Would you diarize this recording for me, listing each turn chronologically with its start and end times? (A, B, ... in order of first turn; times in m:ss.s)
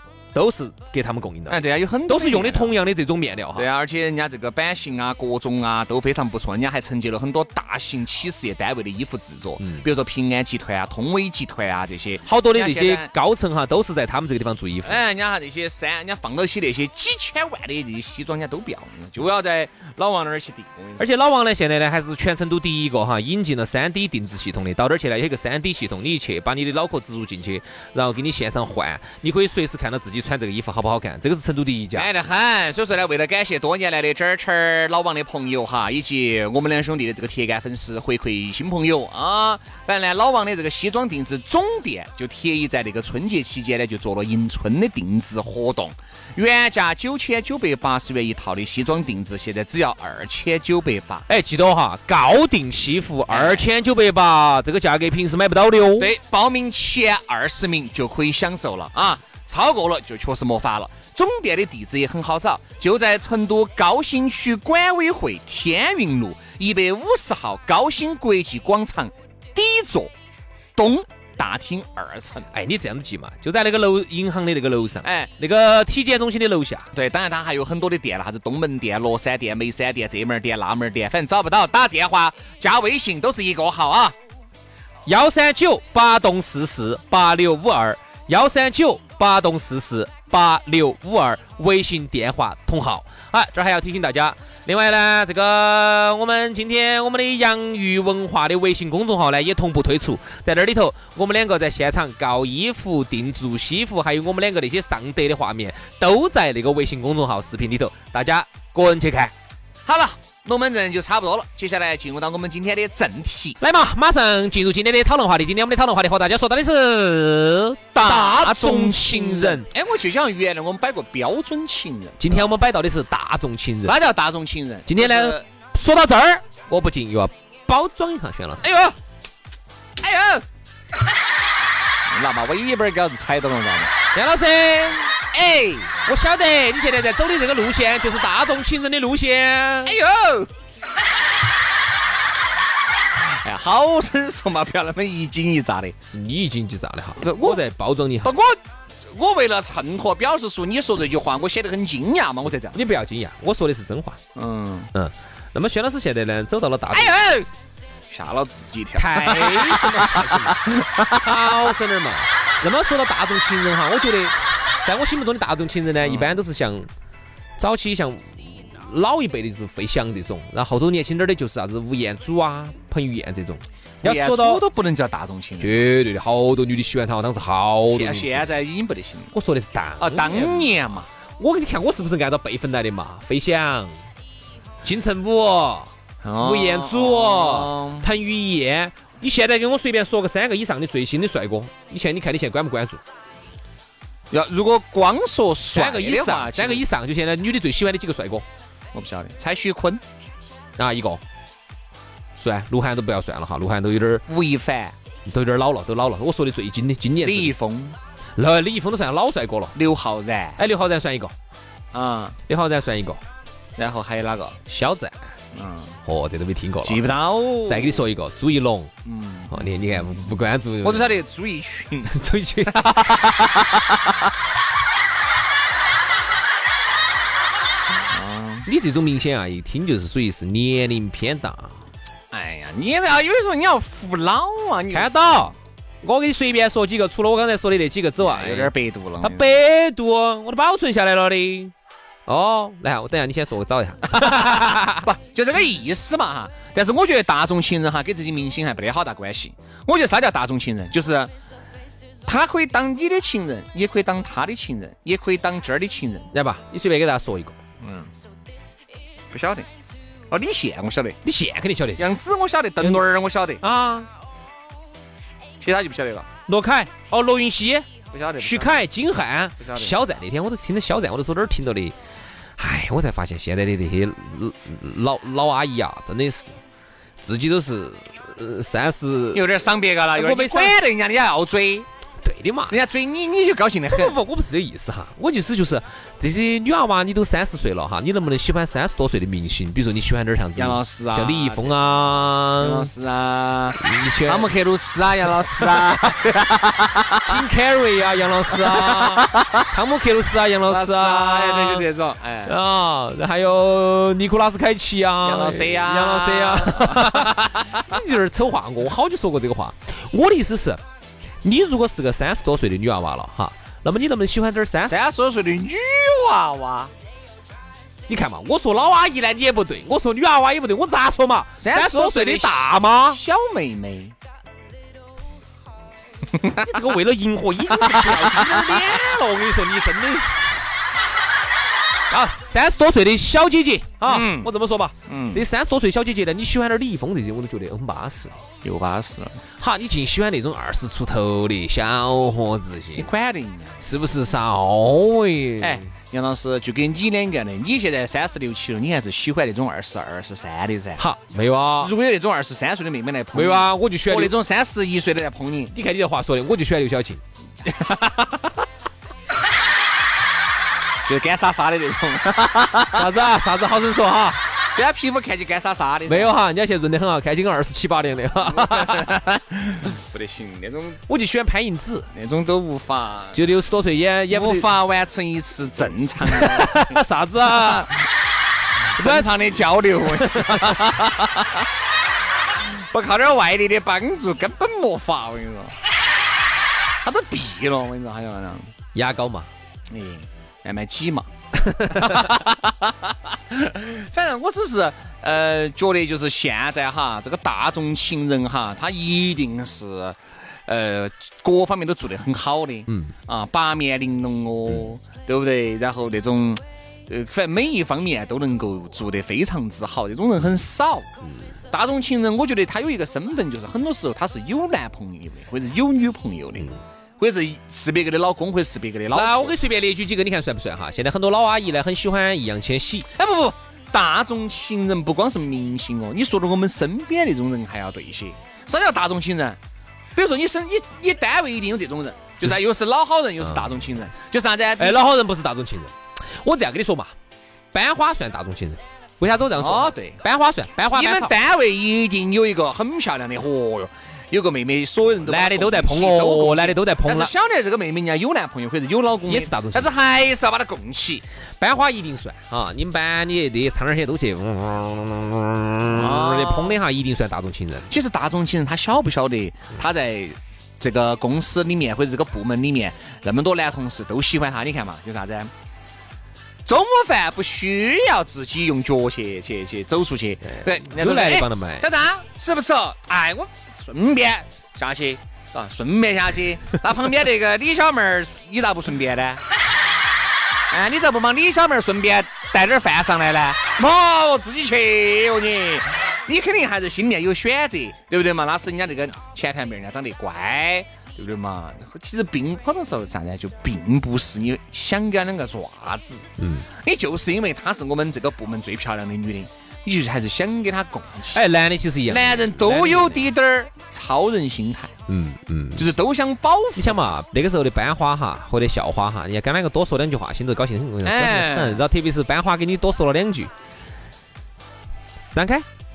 0:00.3-0:03.7 A
0:01.5-0:02.7 B
0:03.6-0:13.1 B
0:09.6-0:09.8 A
0:12.2-0:15.0 A
0:14.8-0:21.1 B
0:21.0-0:32.1 A
0:31.9-0:51.3 B
0:51.3-0:56.1 A
0:53.3-0:53.7 B
0:56.0-1:10.1 B
1:10.8-1:12.5 B
1:12.5-1:16.9 A
1:15.0-1:15.3 B
1:16.9-1:24.2 B
1:25.1-1:49.3 A
1:49.9-1:53.6 B
1:53.6-1:59.7 A
1:58.0-2:02.5 B
2:02.2-2:04.0 A
2:03.8-2:05.5 B
2:04.9-2:08.7 A
2:08.6-2:09.0 B
2:10.0-2:10.4 B
2:12.1-2:13.9 B
2:14.1-2:15.1 A
2:15.3-2:15.9 B
2:16.1-2:20.0 A
2:19.8-2:20.5 B
2:23.4-2:26.0 B
2:26.0-2:28.4 A
2:27.2-2:27.6 B
2:28.2-2:32.8 B
2:32.7-2:34.2 A
2:34.4-2:34.9 B
2:34.9-2:37.2 A
2:36.9-2:37.5 B
2:38.1-2:41.5 B
2:39.0-2:46.9 A
2:46.0-2:46.4 B
2:47.6-2:54.6 A
2:54.0-2:55.8 B
2:55.6-2:58.6 A
2:57.9-2:59.3 B
2:59.3-3:00.8 A
3:00.0-3:01.1 B
3:01.4-3:04.0 A
3:04.8-3:13.0 A
3:06.2-3:08.1 B
3:14.3-3:16.8 B
3:15.7-3:18.5 A
3:18.9-3:20.0 B
3:20.8-3:21.2 A
3:22.4-3:24.2 A
3:24.3-3:25.0 B
3:25.3-3:27.6 A
3:27.2-3:28.0 B
3:28.4-3:29.8 A
3:29.8-3:30.6 B
3:30.6-3:31.3 A
3:31.9-3:32.4 B
3:32.5-3:33.2 A
3:33.8-3:34.6 B
3:34.7-3:35.3 A
3:35.5-3:36.0 B
3:36.0-3:38.9 A
3:36.8-3:38.0 B
3:39.0-3:40.2 B
3:39.5-3:41.2 A
3:40.8-3:43.8 B
3:42.1-3:43.2 A
3:48.1-3:48.7 B
3:48.7-3:51.8 A
3:52.3-3:55.5 B
3:54.9-4:01.7 A
3:58.2-3:59.5 B
4:02.3-4:05.1 A
4:04.1-4:11.3 B
4:12.3-4:16.3 B
4:16.3-4:17.6 A
4:17.8-4:18.1 B
4:19.3-4:19.7 B
4:20.3-4:21.2 B
4:21.2-4:22.1 A
4:22.0-4:23.6 B
4:22.8-4:23.0 A
4:23.6-4:24.1 A
4:25.6-4:26.3 B
4:26.5-4:32.0 A
4:28.1-4:28.9 B
4:29.6-4:30.0 B
4:32.6-4:36.6 A
4:37.2-4:39.5 A
4:39.3-4:41.9 B
4:40.1-4:40.8 A
4:42.2-4:42.8 A
4:42.7-4:44.2 B
4:43.9-4:52.9 A
4:50.6-4:51.8 B
4:52.6-4:57.3 B
4:53.8-4:54.5 A
4:57.3-5:01.9 A
4:58.7-4:59.7 B
5:00.7-5:02.6 B
5:02.4-5:10.8 A
5:05.2-5:07.8 B
5:11.4-5:15.0 A
5:14.9-5:16.9 B
5:18.1-5:23.2 A
5:21.6-5:24.2 B
5:26.3-5:26.6 B
5:26.5-5:30.6 A
5:27.8-5:28.8 B
5:32.1-5:38.5 A
5:34.0-5:34.5 B
5:35.1-5:35.4 B
5:38.6-5:39.4 B
5:39.6-5:43.1 A
5:43.0-5:43.8 B
5:43.8-5:45.9 A
5:45.6-5:51.0 B
5:51.0-5:51.9 A
5:51.8-5:55.7 B
5:53.3-5:54.4 A
5:55.7-5:57.2 A
5:57.6-5:58.5 B
6:01.1-6:03.1 B
6:02.9-6:04.4 A
6:04.8-6:06.4 B
6:06.1-6:09.2 A
6:08.4-6:11.0 B
6:11.1-6:12.1 A
6:12.1-6:13.4 B
6:13.3-6:14.7 A
6:14.3-6:18.0 B
6:16.2-6:17.9 A
6:18.9-6:21.6 B
6:19.0-6:20.8 A
6:22.9-6:25.7 B
6:27.0-6:28.7 B
6:28.9-6:29.5 A
6:29.9-6:51.1 B
6:31.6-6:32.3 A
6:42.9-6:43.1 A
6:51.7-6:59.6 B
6:59.1-7:03.1 A
7:03.2-7:09.6 B
7:10.2-7:15.0 B
7:13.4-7:13.7 A
7:14.8-7:17.1 A
7:17.7-7:21.3 A
7:19.6-7:20.2 B
7:20.9-7:31.2 B
7:25.2-7:27.3 A
7:29.3-7:29.9 A
7:31.6-7:37.9 A
7:35.9-7:36.8 B
7:37.9-7:45.5 B
7:46.7-7:59.4 B
7:50.5-7:51.9 A
8:00.7-8:16.2 B
8:16.4-8:16.7 A
8:16.8-8:21.4 B
8:21.3-8:23.3 A
8:22.1-8:24.9 B
8:25.1-8:25.9 A
8:25.8-8:27.1 B
8:26.8-8:33.5 A
8:31.0-8:31.8 B
8:35.3-8:35.7 A